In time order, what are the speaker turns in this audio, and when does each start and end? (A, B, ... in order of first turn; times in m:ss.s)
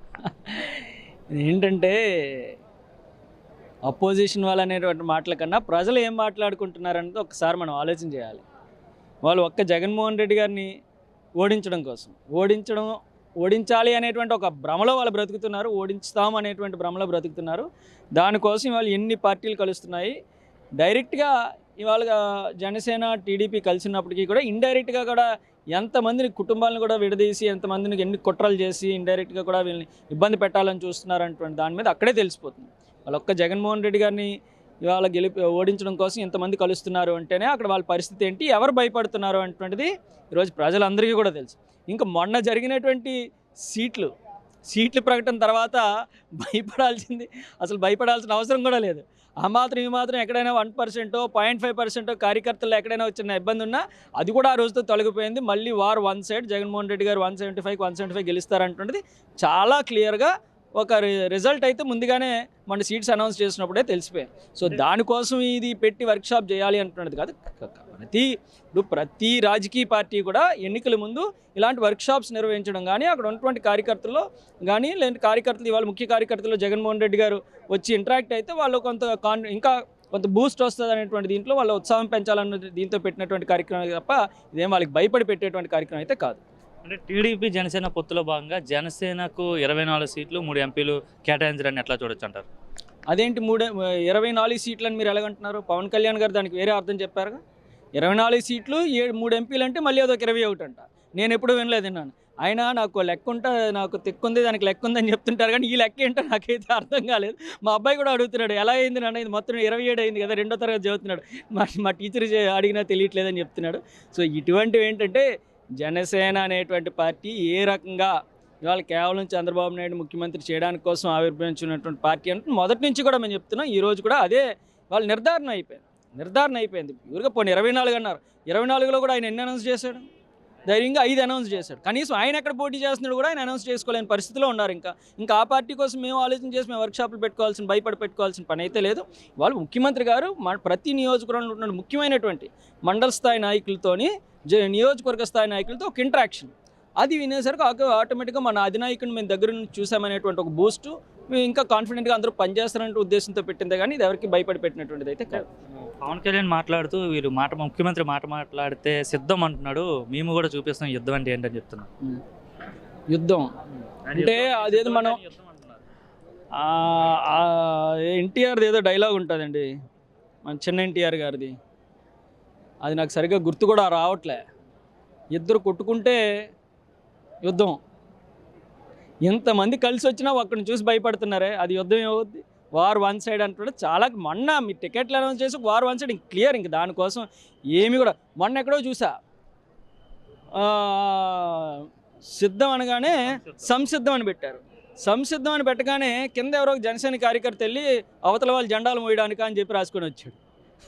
0:00.2-0:02.5 A
0:03.9-0:08.4 A
0:09.2-0:10.7 A
0:11.4-0:20.1 A
0:20.8-0:34.3 A
0:34.8-0:44.1 A
0:44.7-0:45.8 A
0:46.4-1:26.4 A
1:26.8-1:32.4 B
1:33.1-1:37.4 A
1:38.0-1:55.3 A
1:55.8-1:58.1 A
1:58.6-2:10.1 A
2:10.7-2:35.4 A
2:35.3-2:41.8 B
2:43.1-2:43.5 A
2:44.0-2:45.8 B
2:44.1-2:45.2 A
2:46.5-2:49.7 A
2:50.4-2:51.5 A
2:52.8-2:54.4 A
2:55.3-2:56.2 A
2:57.4-2:57.8 A
2:59.3-3:09.1 A
3:10.5-3:20.4 A
3:13.2-3:13.6 B